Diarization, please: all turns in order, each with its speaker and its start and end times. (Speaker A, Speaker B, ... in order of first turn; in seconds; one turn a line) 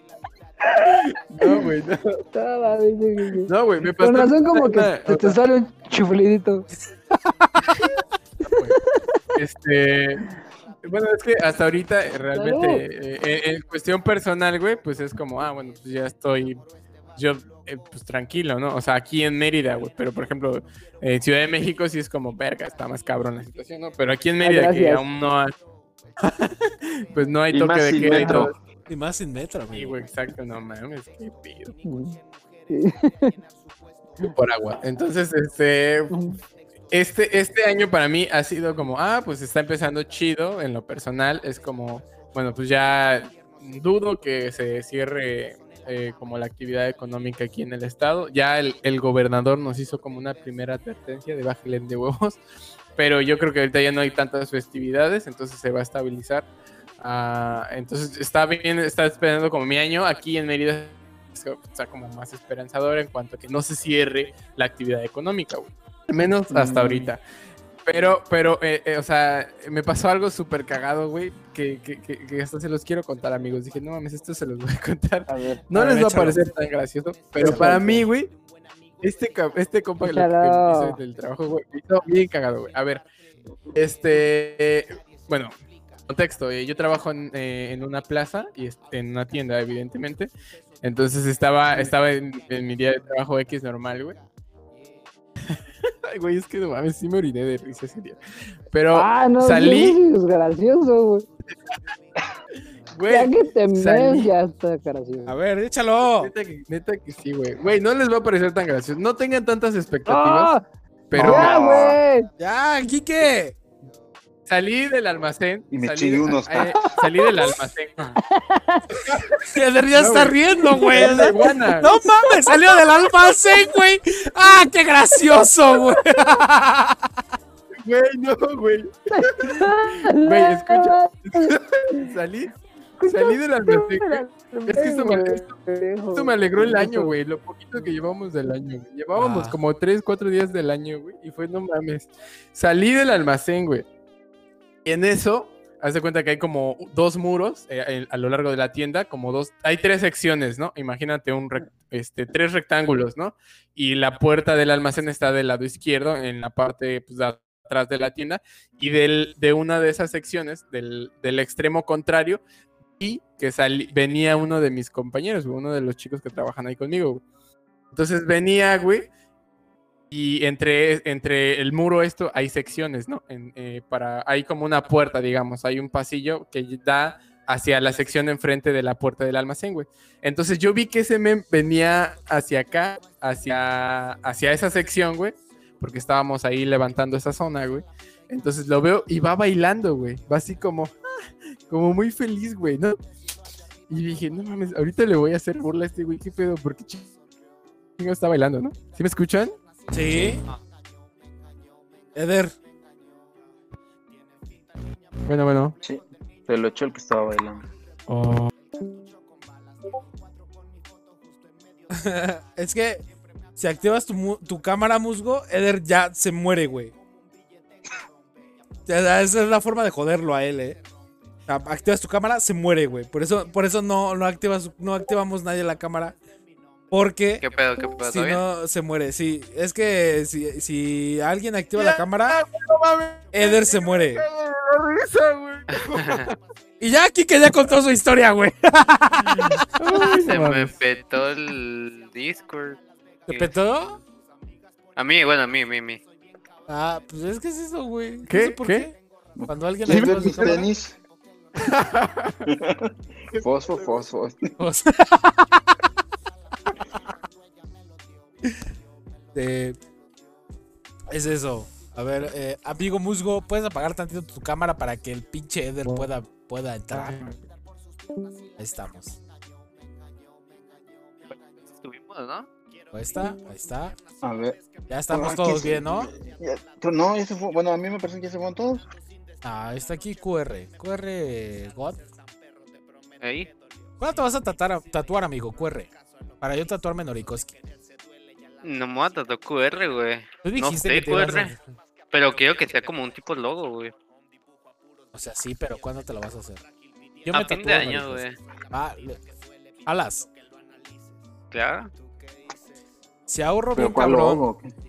Speaker A: 0.7-2.2
Speaker B: 2.3-6.7
Speaker A: 3.4-5.4
Speaker A: 8.4-8.8
Speaker A: 9.4-10.3
Speaker A: 10.8-16.6
Speaker B: 12.3-12.8
Speaker A: 17.1-25.5
Speaker B: 24.4-25.1
Speaker A: 26.2-28.6
Speaker C: 27.5-28.5
Speaker B: 28.1-28.5
Speaker D: 28.9-30.0
Speaker A: 29.7-31.8
Speaker B: 31.9-32.2
Speaker B: 32.7-33.4
Speaker A: 34.2-36.1
Speaker B: 36.1-36.4
Speaker A: 36.9-52.4
Speaker A: 53.0-56.5
Speaker A: 57.0-67.2
Speaker C: 66.5-67.1
Speaker A: 67.8-78.3
Speaker D: 75.7-76.4
Speaker D: 77.4-78.0
Speaker C: 77.4-77.7
Speaker B: 77.4-77.7
Speaker A: 79.0-83.0
Speaker B: 80.0-81.0
Speaker A: 83.8-85.5
Speaker A: 86.1-90.3
Speaker A: 90.8-94.2
Speaker A: 95.5-98.2
Speaker A: 98.7-100.0
Speaker B: 98.9-101.3
Speaker A: 102.9-104.3
Speaker B: 103.1-105.3
Speaker D: 105.3-106.3
Speaker A: 106.2-110.5
Speaker B: 110.1-110.6
Speaker A: 111.1-111.6
Speaker C: 111.2-112.0
Speaker B: 111.2-112.3
Speaker D: 112.4-113.6
Speaker A: 114.5-118.2
Speaker C: 115.7-117.0
Speaker B: 118.2-119.0
Speaker A: 119.0-121.9
Speaker D: 119.5-127.1
Speaker B: 120.6-122.7
Speaker B: 123.2-123.7
Speaker B: 125.2-126.0
Speaker A: 127.8-132.5
Speaker B: 129.1-132.1
Speaker B: 133.0-137.2
Speaker A: 133.0-135.6
Speaker A: 136.1-143.9
Speaker D: 139.2-139.6
Speaker A: 144.8-162.4
Speaker A: 163.0-167.2
Speaker A: 167.9-169.1
Speaker A: 170.1-190.9
Speaker A: 191.7-193.0
Speaker A: 193.9-197.1
Speaker A: 198.0-199.6
Speaker D: 199.9-200.4
Speaker D: 202.2-202.5
Speaker A: 205.2-205.8
Speaker C: 205.8-207.7
Speaker A: 208.1-208.5
Speaker D: 211.9-213.0
Speaker D: 213.6-216.9
Speaker D: 218.9-220.8
Speaker D: 221.5-226.2
Speaker D: 226.9-227.4
Speaker E: 227.4-228.4
Speaker D: 228.0-232.4
Speaker A: 231.8-236.4
Speaker D: 233.3-234.2
Speaker E: 235.7-236.2
Speaker D: 236.8-240.2
Speaker A: 239.2-240.7
Speaker E: 240.2-243.5
Speaker D: 243.3-244.0
Speaker E: 245.0-246.0
Speaker D: 246.7-249.0
Speaker A: 248.3-248.9
Speaker C: 249.4-251.0
Speaker D: 249.5-250.7
Speaker A: 249.9-250.7
Speaker A: 251.6-252.5
Speaker C: 252.5-254.6
Speaker A: 253.3-254.0
Speaker D: 254.6-255.7
Speaker D: 259.4-259.8
Speaker D: 261.1-267.2
Speaker A: 266.9-267.4
Speaker D: 268.6-269.2
Speaker E: 271.3-272.5
Speaker D: 272.9-274.0
Speaker C: 274.2-278.9
Speaker D: 274.9-276.1
Speaker D: 279.4-282.0
Speaker E: 283.2-283.5
Speaker D: 284.0-287.6
Speaker E: 288.6-291.5
Speaker D: 290.4-291.6
Speaker E: 292.1-293.9
Speaker D: 295.1-296.6
Speaker D: 297.2-299.2
Speaker E: 297.3-298.4
Speaker D: 299.9-300.3
Speaker E: 301.5-301.9
Speaker D: 303.3-304.5
Speaker C: 303.8-304.7